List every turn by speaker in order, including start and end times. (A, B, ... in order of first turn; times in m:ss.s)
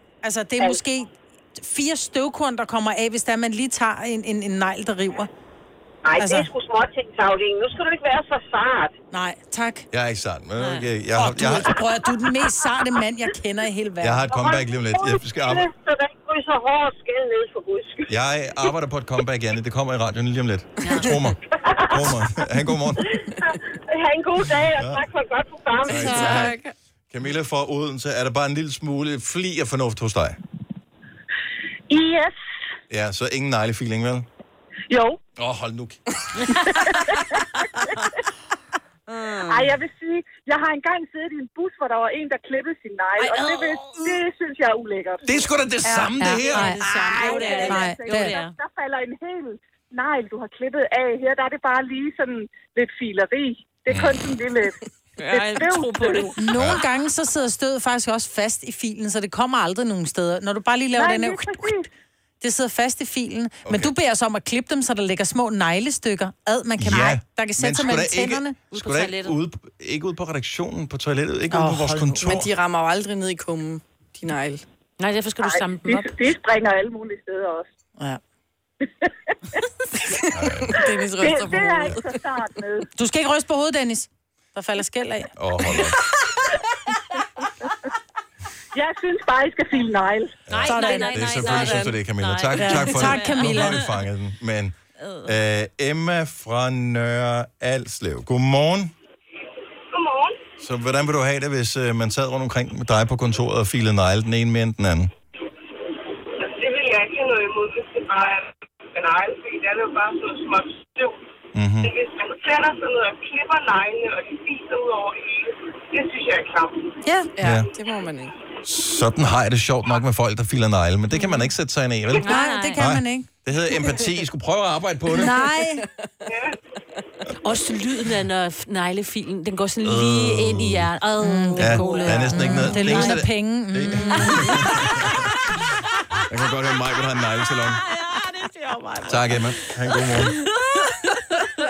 0:00.2-0:05.3 A
0:06.0-0:08.9 B
0:06.2-0:06.5 A
0:09.1-0:09.9 A
0:09.9-0:11.8 C
0:10.6-0:10.9 D
0:11.1-0:14.3 A
0:14.0-0:15.6 C
0:14.3-0:18.1 B
0:18.1-0:23.0 C
0:20.8-0:21.1 D
0:21.6-0:22.0 B
0:23.3-0:26.5 B
0:24.7-0:25.0 C
0:25.8-0:26.6 C
0:26.0-0:26.4 A
0:26.4-0:26.7 E
0:27.1-0:30.4 C
0:31.9-0:32.3 F
0:32.9-0:34.2 C
0:34.9-0:35.2 F
0:35.4-0:36.0 C
0:36.7-0:37.4 F
0:39.1-0:39.7 D
0:39.4-0:45.2 F
0:45.2-0:47.4 C
0:45.8-0:56.4 F
0:46.2-0:48.4 A
0:46.4-0:48.5 D
0:53.9-0:54.4 C
0:55.2-0:56.4 D
0:56.4-1:01.8 A
1:00.9-1:01.9 F
1:02.4-1:08.5 A
1:03.6-1:03.9 C
1:06.8-1:12.5 C
1:08.7-1:09.4 D
1:11.5-1:12.3 A
1:12.2-1:14.6 E
1:15.0-1:16.1 D
1:15.4-1:17.7 F
1:20.3-1:20.8 C
1:20.6-1:22.0 E
1:21.2-1:22.9 F
1:23.0-1:25.3 A
1:25.4-1:26.0 C
1:28.7-1:31.0 F
1:30.5-1:38.9 C
1:30.5-1:34.0 D
1:30.7-1:31.9 A
1:32.6-1:33.8 A
1:35.0-1:35.3 D
1:39.9-1:40.4 G
1:40.6-1:45.1 C
1:46.4-1:51.2 G
1:51.5-1:51.9 C
1:51.8-1:57.0 G
1:57.0-1:57.3 A
1:57.4-1:58.3 E
1:57.4-1:57.7 C
1:58.6-2:05.4 C
2:01.1-2:01.5 D
2:02.2-2:02.8 D
2:02.2-2:03.3 A
2:05.1-2:05.8 A
2:07.4-2:13.2 D
2:09.8-2:10.9 C
2:11.2-2:14.5 A
2:11.6-2:15.3 C
2:14.1-2:14.5 D
2:16.3-2:17.8 C
2:17.7-2:21.2 D
2:19.1-2:20.4 C